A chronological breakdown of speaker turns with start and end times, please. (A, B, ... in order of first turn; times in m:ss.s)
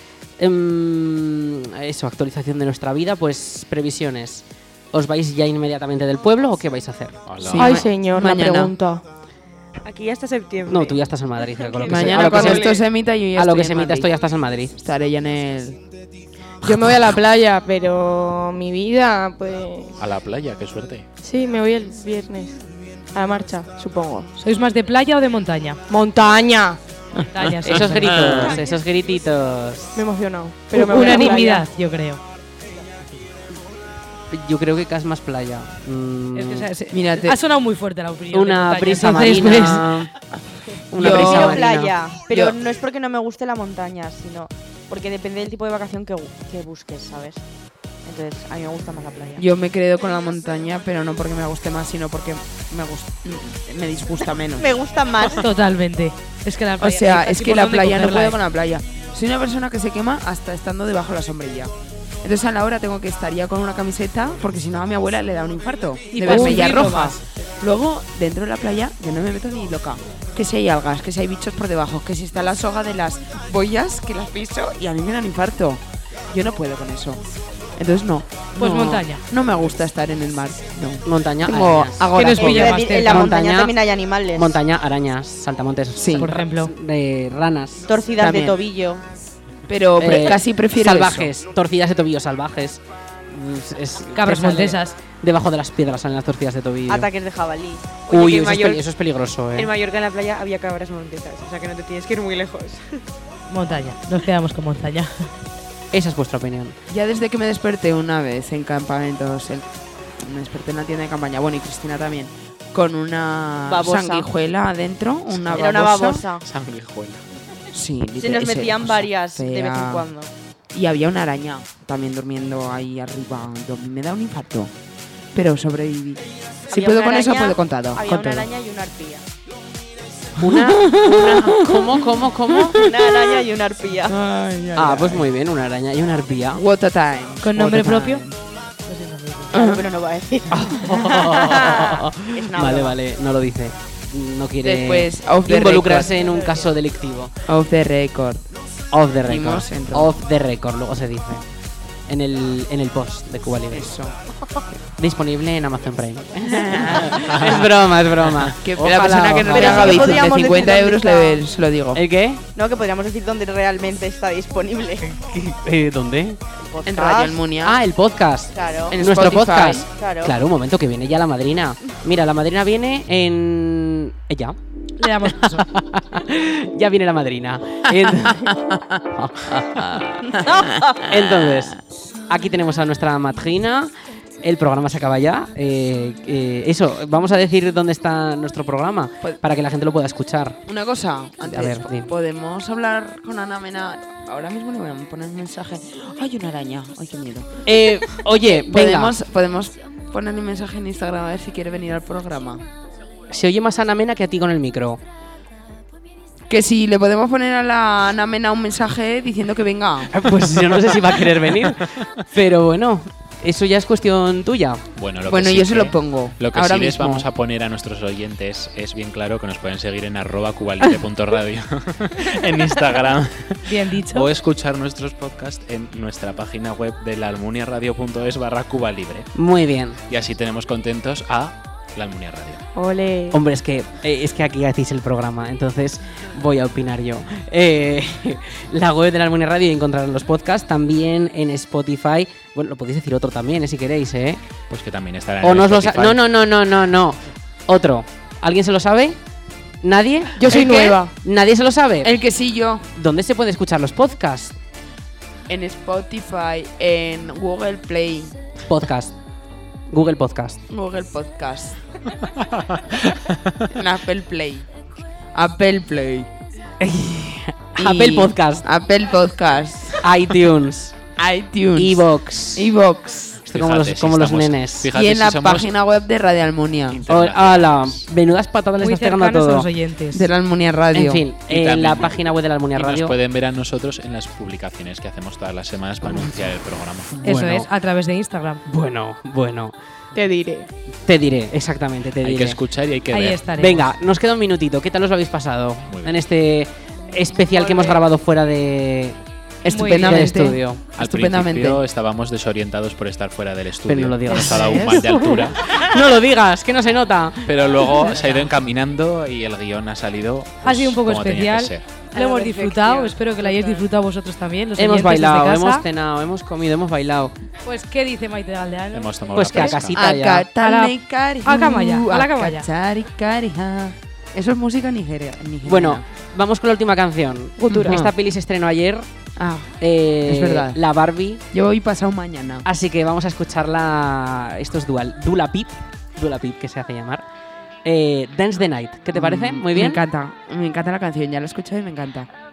0:00.4-0:07.2 A
0:07.3-0:07.8 B
0:07.4-0:09.0 C
0:07.5-0:08.7 D
0:09.8-0:11.0 E
0:10.7-0:14.7 A
0:11.5-0:12.8 E
0:11.8-0:14.1 D
0:14.8-0:15.8 D
0:16.6-0:20.0 C
0:20.0-0:21.1 B
0:21.2-0:22.6 C
0:23.1-0:24.3 C
0:24.4-0:25.8 F
0:25.9-0:26.8 C
0:27.3-0:28.5 F
0:27.6-0:30.0 A
0:30.0-0:31.7 C
0:30.7-0:32.2 F
0:34.3-0:36.7 A
0:36.4-0:39.9 F
0:36.9-0:37.4 D
0:38.3-0:40.1 A
0:40.9-0:42.0 A
0:41.0-0:41.6 D
0:41.0-0:47.4 G
0:42.3-0:42.6 D
0:48.1-0:49.4 G
0:49.4-0:54.7 D
0:54.6-0:55.4 G
0:55.3-0:58.4 F
0:56.8-1:17.2 D
1:06.2-1:07.2 F
1:17.8-1:22.7 D
1:18.6-1:19.2 F
1:21.0-1:23.8 A
1:22.1-1:23.3 F
1:22.4-1:24.6 G
1:24.3-1:27.9 A
1:26.0-1:26.3 D
1:26.2-1:26.7 F
1:27.9-1:29.0 G
1:28.2-1:28.6 D
1:29.7-1:31.3 D
1:30.0-1:37.1 A
1:34.2-1:35.0 F
1:36.9-1:38.0 G
1:38.1-1:38.9 E
1:38.1-1:39.7 A
1:39.5-1:43.0 E
1:43.5-1:45.3 F
1:45.9-1:46.8 A
1:46.9-1:49.6 D
1:50.2-1:56.2 D
1:53.7-1:54.3 G
1:55.5-1:56.4 G
1:56.4-1:57.2 B
1:57.7-2:00.1 D
1:58.2-2:00.3 G
2:00.7-2:04.7 D
2:05.3-2:08.4 D
2:06.7-2:09.2 G
2:10.4-2:12.8 A
2:10.4-2:11.9 D
2:12.6-2:13.1 D
2:12.7-2:14.2 G
2:14.1-2:15.3 D
2:14.8-2:16.6 A
2:16.6-2:18.4 D
2:17.4-2:18.2 F
2:18.9-2:19.5 F
2:19.5-2:23.0 G
2:19.5-2:19.8 D
2:20.5-2:27.3 A
2:21.4-2:22.0 D
2:24.6-2:26.1 D
2:27.5-2:28.4 D
2:28.9-2:31.4 A
2:29.3-2:30.1 D
2:32.1-2:34.0 A
2:33.7-2:34.2 D
2:35.0-2:40.7 A
2:36.5-2:37.6 D
2:38.6-2:42.0 D
2:39.5-2:41.5 G
2:41.9-2:42.4 A
2:42.6-2:45.1 G
2:45.2-2:46.4 A
2:46.6-2:47.4 G
2:46.9-2:47.8 D
2:47.6-2:54.6 A
2:48.5-2:49.0 G
2:48.9-2:49.9 D
2:49.9-2:50.4 G
2:55.0-2:55.7 F
2:55.2-2:58.5 A
2:59.2-3:00.0 A
3:00.4-3:01.1 G
3:01.0-3:01.8 A
3:02.3-3:10.6 A
3:10.7-3:22.6 D
3:11.5-3:12.1 A
3:17.7-3:19.2 A
3:23.3-3:25.0 A
3:26.5-3:30.1 D
3:30.1-3:34.8 A
3:35.0-3:49.3 B
3:35.3-3:37.3 D
3:43.6-3:44.3 F
3:49.4-3:50.0 A
3:50.1-3:52.6 B
3:52.8-3:53.4 C
3:53.3-4:04.4 A
4:04.7-4:06.3 B
4:05.4-4:09.2 A
4:09.8-4:10.6 A
4:10.4-4:11.1 C
4:10.5-4:11.0 D
4:11.2-4:12.1 A
4:12.0-4:12.9 D
4:13.0-4:14.6 A
4:15.5-4:18.4 D
4:18.7-4:19.1 A
4:19.9-4:20.6 A
4:20.7-4:21.8 D
4:22.3-4:23.7 B
4:23.8-4:24.7 D
4:25.3-4:26.3 D
4:26.8-4:28.6 A
4:27.8-4:30.0 D
4:30.0-4:31.0 A
4:31.2-4:32.0 D
4:31.7-4:32.7 A
4:32.6-4:33.4 D
4:33.5-4:34.9 A
4:33.5-4:35.7 B
4:34.9-4:37.0 D
4:36.9-4:38.1 B
4:37.1-4:39.7 A
4:38.8-4:40.2 F
4:40.1-4:41.3 D
4:40.9-4:43.2 A
4:41.4-4:47.2 B
4:47.2-4:47.7 A
4:47.2-4:48.6 F
4:48.7-4:49.8 A
4:50.1-4:50.7 C
4:51.1-4:52.6 A
4:52.2-4:53.4 B
4:53.1-4:53.8 F
4:53.6-4:59.2 A
4:55.9-4:56.2 B
4:57.5-4:58.0 C
4:59.6-5:01.8 D
4:59.7-5:00.6 F
4:59.8-5:00.9 A
5:01.0-5:05.8 B
5:03.9-5:08.5 A
5:04.3-5:05.0 F
5:07.5-5:12.0 B
5:10.6-5:15.8 F
5:12.1-5:13.8 C
5:14.8-5:17.3 A
5:17.6-5:19.8 F
5:18.9-5:20.0 B
5:19.3-5:20.5 A
5:20.0-5:26.0 D
5:20.6-5:22.7 F
5:25.6-5:29.1 A
5:27.6-5:28.0 F
5:27.7-5:28.1 D
5:29.4-5:29.7 D
5:29.8-5:31.4 A
5:30.3-5:30.8 D
5:31.5-5:32.7 D
5:32.6-5:37.2 A
5:37.8-5:40.0 A
5:39.1-5:42.3 D